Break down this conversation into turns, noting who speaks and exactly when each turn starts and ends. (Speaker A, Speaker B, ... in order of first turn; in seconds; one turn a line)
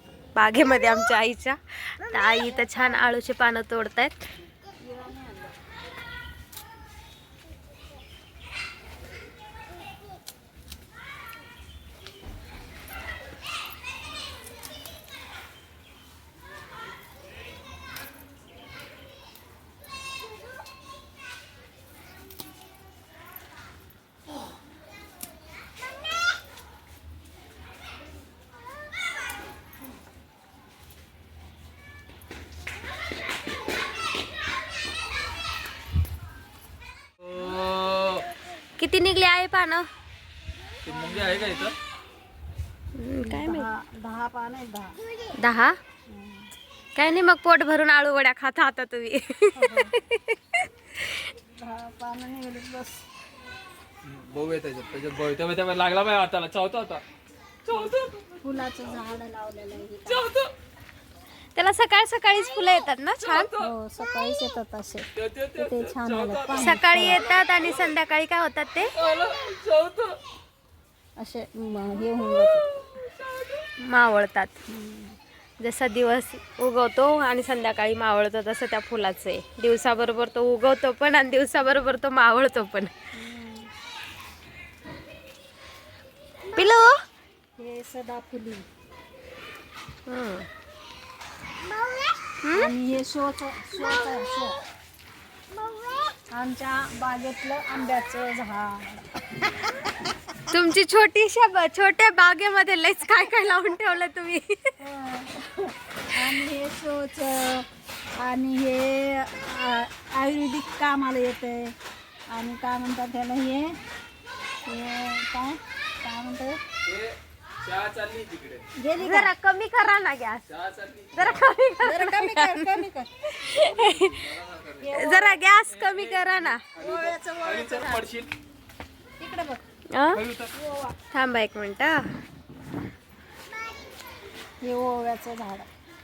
Speaker A: 0.3-4.3
Speaker B: 2.4-3.1
Speaker B: 4.8-5.5
Speaker C: 37.2-38.2
Speaker A: 38.8-39.9
Speaker C: 40.8-41.8
Speaker A: 43.0-43.7
Speaker B: 43.2-45.0
Speaker A: 45.4-45.8
Speaker B: 46.1-46.5
Speaker A: 46.9-51.3
Speaker B: 49.5-49.9
Speaker B: 51.6-53.0
Speaker C: 54.0-57.0
Speaker C: 57.6-58.4
Speaker B: 58.4-60.3
Speaker C: 60.1-60.5
Speaker A: 61.5-63.5
Speaker C: 63.2-63.7
Speaker B: 63.6-67.3
Speaker C: 65.2-67.6
Speaker A: 66.6-68.9
Speaker C: 69.0-70.2
Speaker B: 71.2-72.6
Speaker C: 72.9-73.7
Speaker A: 73.8-74.5
Speaker B: 74.7-75.2
Speaker A: 75.6-82.9
Speaker B: 83.1-83.7
Speaker A: 86.5-86.9
Speaker B: 87.6-88.7
Speaker A: 90.1-90.5
Speaker A: 92.4-92.7
Speaker B: 92.5-94.6
Speaker B: 96.3-99.1
Speaker A: 100.5-104.7
Speaker B: 104.8-107.7
Speaker B: 108.2-111.7
Speaker B: 112.3-113.8
Speaker B: 114.7-116.6
Speaker C: 116.8-118.7
Speaker B: 118.8-119.3
Speaker A: 119.0-120.4
Speaker C: 120.5-121.4
Speaker A: 121.1-124.2
Speaker B: 121.8-123.1
Speaker C: 123.5-124.9
Speaker B: 124.8-125.4
Speaker A: 124.9-126.6
Speaker C: 125.8-128.3
Speaker B: 126.8-128.0
Speaker B: 129.2-129.6
Speaker A: 129.9-130.2
Speaker C: 130.1-130.5
Speaker B: 130.5-130.9
Speaker A: 131.1-132.1
Speaker B: 134.6-135.7